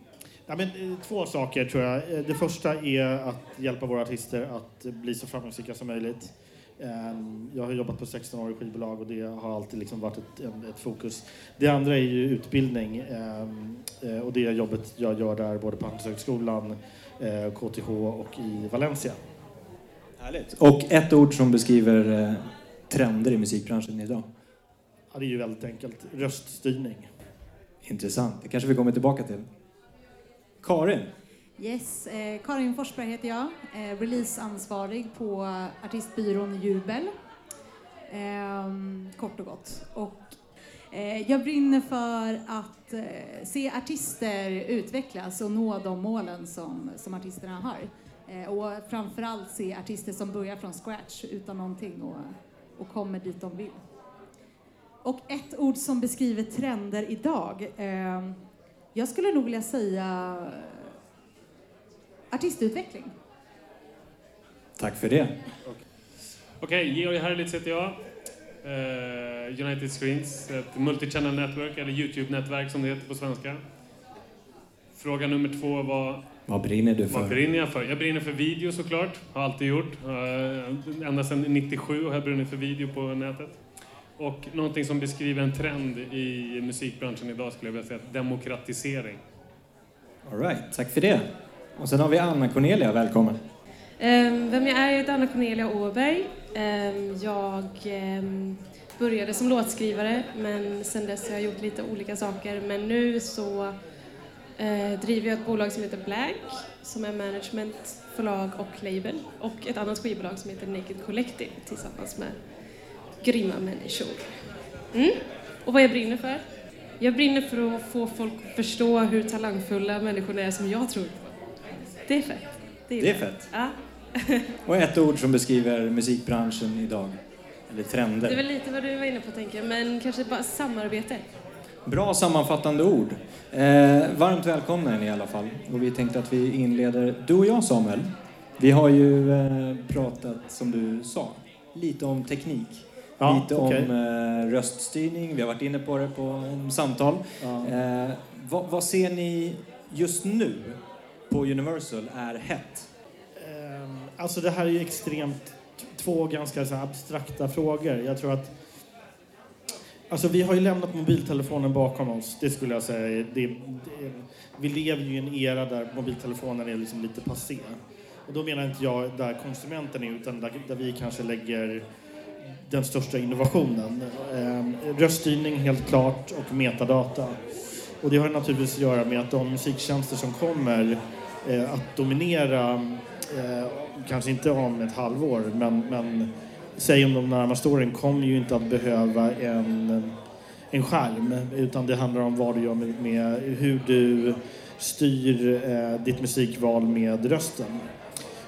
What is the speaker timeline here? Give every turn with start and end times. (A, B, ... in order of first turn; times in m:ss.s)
0:00.5-0:19.2 A
0:20.2-0:24.2 B
0:25.1-0:27.1 A
0:27.8-0:29.5 B
0:30.6-0:31.1 B
0:31.6-0:37.1 C
0:38.1-0:40.3 C
0:40.9-0:53.8 C
0:55.0-0:58.4 C
0:58.9-1:00.9 C
1:02.3-1:03.1 C
1:04.8-1:05.3 B
1:06.6-1:08.0 D
1:08.6-1:13.6 D
1:14.9-1:16.2 D
1:16.5-1:17.4 B
1:17.1-1:23.6 D
1:24.2-1:29.2 D
1:30.2-1:33.4 B
1:34.0-1:43.7 E
1:44.6-1:52.3 E
1:53.2-1:54.3 E
1:54.9-1:56.4 E
1:57.0-2:01.3 E
2:02.0-2:04.5 E
2:03.0-2:03.5 B
2:04.6-2:07.2 B
2:07.7-2:08.4 B
2:08.2-2:11.2 E
2:11.8-2:32.9 B
2:23.2-2:23.9 A
2:27.4-2:27.7 A
2:33.4-2:38.5 A
2:40.1-2:51.8 A
2:52.6-2:57.4 A
2:58.0-3:10.1 A
3:10.7-3:17.8 A